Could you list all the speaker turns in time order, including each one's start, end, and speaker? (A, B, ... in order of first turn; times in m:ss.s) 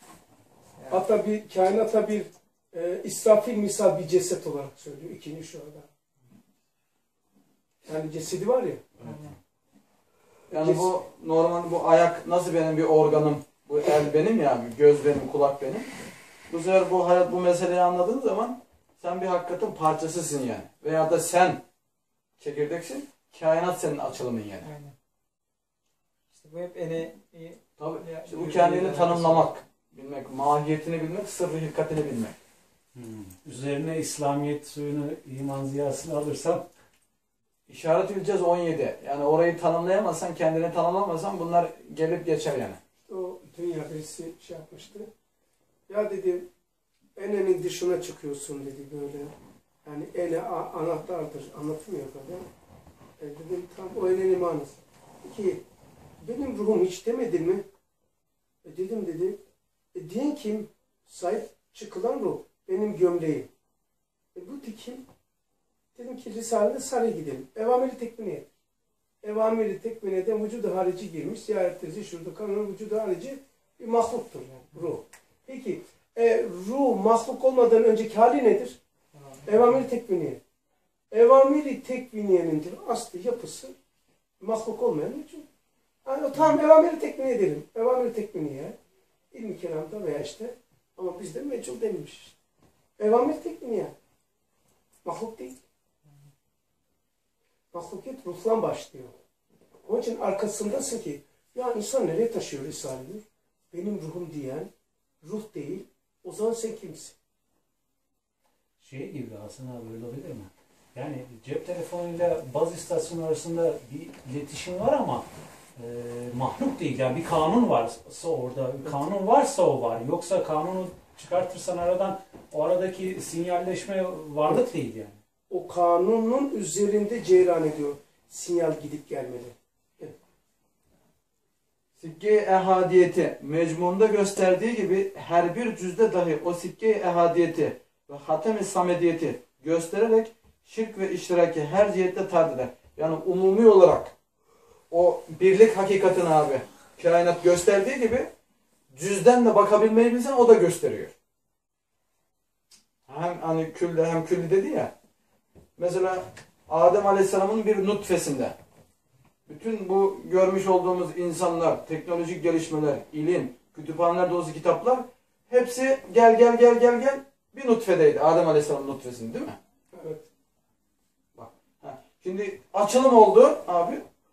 0:00.8-0:01.0 A
0:00.9-0:05.9 B
0:07.8-0:08.8 B
0:09.0-0:09.4 A
0:10.5-0:15.9 C
0:10.5-0:10.9 B
0:16.5-0:21.6 C
0:22.4-0:24.7 C
0:24.6-0:25.0 A
0:26.3-0:29.5 A
0:27.8-0:32.4 C
0:32.9-0:36.7 D
0:37.7-0:42.8 C
0:43.0-0:45.1 B
0:45.9-0:46.5 B
0:47.2-0:52.5 B
0:53.2-0:55.6 B
0:56.2-0:57.7 B
0:58.6-0:59.4 B
0:59.9-1:03.5 B
1:04.3-1:05.1 B
1:06.0-1:08.5 B
1:09.2-1:18.8 B
1:19.1-1:19.5 A
1:19.5-1:20.4 B
1:21.1-1:23.8 B
1:24.4-1:25.5 B
1:26.0-1:28.8 B
1:29.3-1:32.4 B
1:33.0-1:33.9 B
1:35.0-1:35.6 B
1:37.7-1:39.2 B
1:39.8-1:44.7 B
1:45.2-1:47.2 B
1:48.8-2:05.2 D
2:05.5-2:10.2 B
2:12.0-2:24.1 C
2:24.9-2:28.3 C
2:28.9-2:31.1 C
2:33.1-2:34.9 C
2:35.8-2:38.6 C
2:39.5-2:49.6 C
2:49.9-2:50.3 B
2:51.4-2:54.0 C